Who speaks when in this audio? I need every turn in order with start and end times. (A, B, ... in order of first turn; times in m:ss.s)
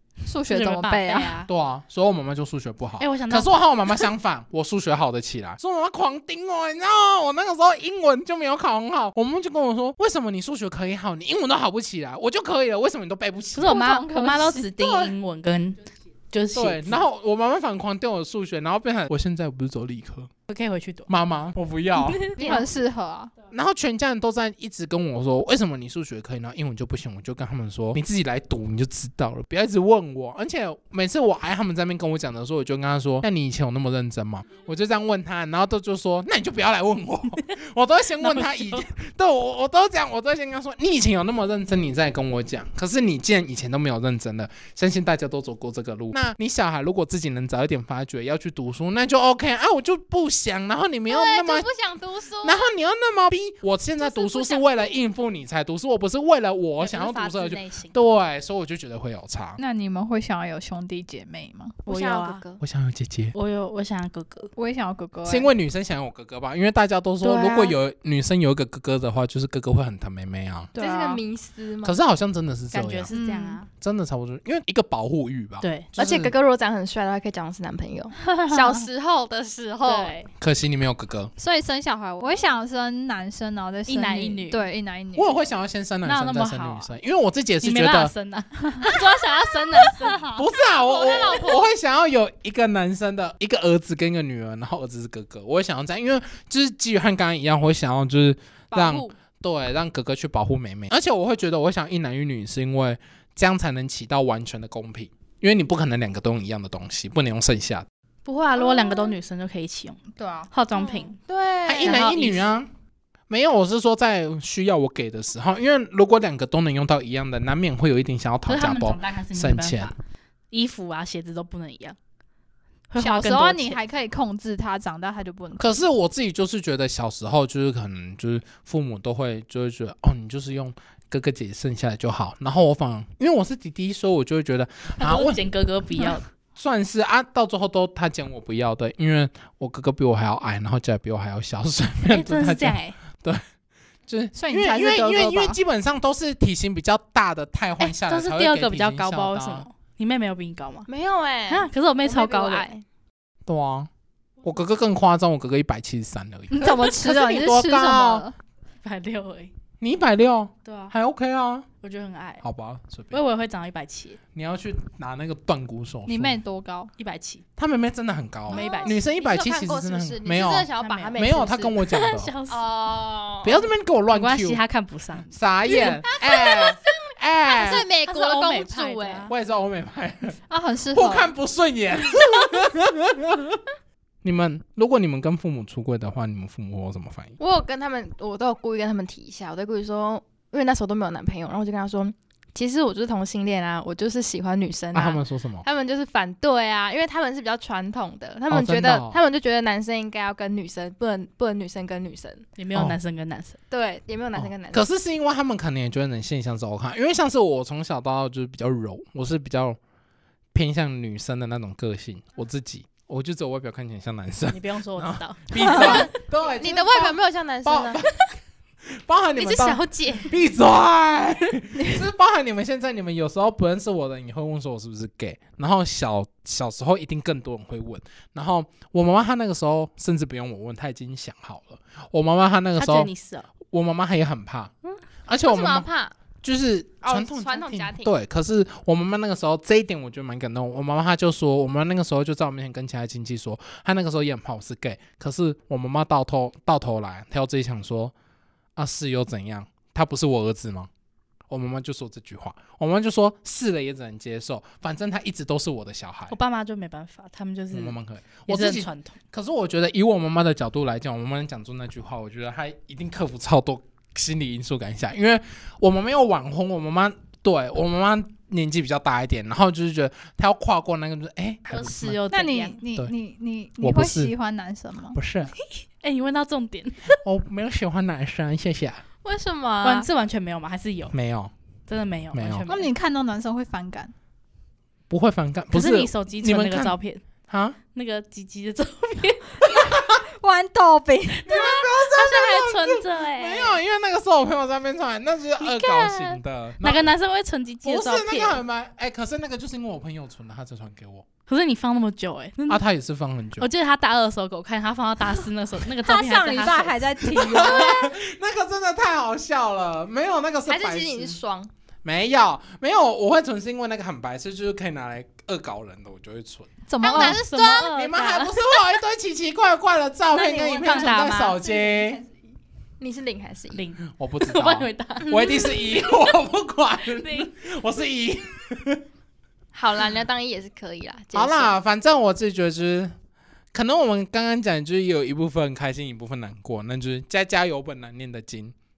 0:00.2-0:01.5 A
0:00.5-0:01.5 B
0:01.5-0:13.8 C
0:03.0-0:04.1 B
0:13.6-0:17.0 B
0:13.6-0:14.7 A
0:16.5-0:20.3 C
0:20.5-0:21.1 B
0:21.1-0:22.3 C
0:22.0-0:22.6 B
0:22.4-0:23.3 A
0:22.4-0:22.7 D
0:23.5-0:51.7 C
0:38.2-0:38.8 B
0:51.1-0:52.7 D
0:52.4-0:59.6 C
0:54.0-0:54.9 D
0:56.8-0:58.0 B
0:59.6-1:01.8 A
1:01.9-1:02.6 D
1:01.9-1:02.4 B
1:02.6-1:03.4 C
1:03.3-1:04.5 B
1:04.6-1:05.5 A
1:05.3-1:10.7 C
1:07.2-1:07.7 B
1:10.7-1:11.2 A
1:10.8-1:12.0 D
1:11.8-1:13.1 C
1:12.7-1:13.7 B
1:13.1-1:13.6 A
1:13.7-1:16.4 C
1:15.6-1:15.9 B
1:16.0-1:20.2 D
1:19.8-1:20.3 B
1:20.4-1:21.3 C
1:21.4-1:25.3 A
1:23.9-1:24.7 B
1:25.2-1:28.1 C
1:26.0-1:26.9 B
1:27.6-1:30.3 B
1:28.6-1:28.9 A
1:29.9-1:30.5 A
1:30.4-1:47.9 C
1:30.6-1:31.6 D
1:38.7-1:39.1 D
1:48.3-1:51.2 B
1:48.6-1:49.2 D
1:50.2-1:50.5 A
1:50.7-1:52.1 D
1:51.6-1:52.7 C
1:51.8-1:52.5 B
1:53.3-1:59.9 C
1:58.5-1:59.9 B
2:00.5-2:02.0 B
2:02.9-2:03.8 B
2:03.0-2:05.8 A
2:05.6-2:15.4 C
2:15.0-2:16.3 B
2:16.0-2:23.4 C
2:22.1-2:23.0 B
2:24.1-2:29.7 C
2:24.3-2:25.6 A
2:27.8-2:30.9 B
2:30.9-2:32.8 D
2:31.5-2:32.7 B
2:33.5-2:33.9 C
2:34.4-2:38.2 C
2:36.5-2:38.4 A
2:38.8-2:39.5 B
2:39.8-2:41.7 C
2:40.6-2:40.9 B
2:41.8-2:42.4 B
2:42.4-2:43.2 C
2:43.1-2:44.2 B
2:44.3-2:46.4 C
2:46.1-2:46.9 A
2:47.0-2:47.4 B
2:47.6-2:52.3 C
2:48.5-2:49.0 B
2:48.5-2:53.7 D
2:50.8-2:52.6 B
2:53.4-2:54.6 C
2:54.1-2:55.9 B
2:55.3-2:57.8 C
2:55.7-2:59.3 D
2:57.6-2:59.3 B
2:59.3-3:00.4 C
3:00.5-3:01.3 A
3:00.9-3:03.6 C
3:04.2-3:07.4 C
3:07.4-3:22.5 D
3:14.9-3:15.6 C
3:18.5-3:19.2 C
3:22.6-3:23.6 B
3:23.7-3:24.8 D
3:24.4-3:29.8 C
3:30.5-3:38.3 C
3:34.5-3:36.1 B
3:35.7-3:38.0 D
3:38.8-3:53.1 C
3:39.4-3:40.4 D
3:52.8-3:53.5 B
3:53.7-3:54.7 C
3:55.3-3:55.9 C
3:55.4-3:56.2 D
3:56.4-4:08.1 C
3:57.0-3:58.1 D
4:08.8-4:10.9 C
4:11.5-4:16.4 C
4:16.3-4:19.2 B
4:17.7-4:32.2 C
4:31.7-4:32.8 B
4:32.3-4:35.2 A
4:33.8-4:34.3 C
4:35.1-4:35.5 C
4:36.0-4:37.2 B
4:37.2-4:39.0 C
4:39.2-4:40.1 D
4:39.8-4:41.1 B
4:41.1-4:41.5 C
4:41.9-4:42.9 B
4:42.3-4:42.7 C
4:42.7-4:44.1 A
4:45.1-4:47.0 C
4:45.7-4:47.2 B
4:47.5-4:47.8 C
4:47.9-4:49.7 B
4:49.7-4:51.5 A
4:49.7-4:50.2 C
4:51.4-4:57.1 C
4:51.5-4:53.8 B
4:55.6-4:58.6 B
4:57.8-5:01.3 C
5:01.5-5:02.8 B
5:02.7-5:03.7 C
5:03.6-5:07.5 B
5:06.0-5:08.1 A
5:07.2-5:11.4 C
5:10.7-5:11.7 D
5:12.0-5:16.7 C
5:16.9-5:17.4 A
5:17.0-5:17.9 D
5:17.0-5:18.9 B
5:17.9-5:22.2 C
5:20.4-5:21.6 B
5:23.0-5:23.9 D
5:23.7-5:26.3 B
5:24.1-5:29.0 C
5:27.0-5:27.5 B
5:29.7-5:31.8 D
5:31.3-5:33.1 C
5:33.7-5:38.8 C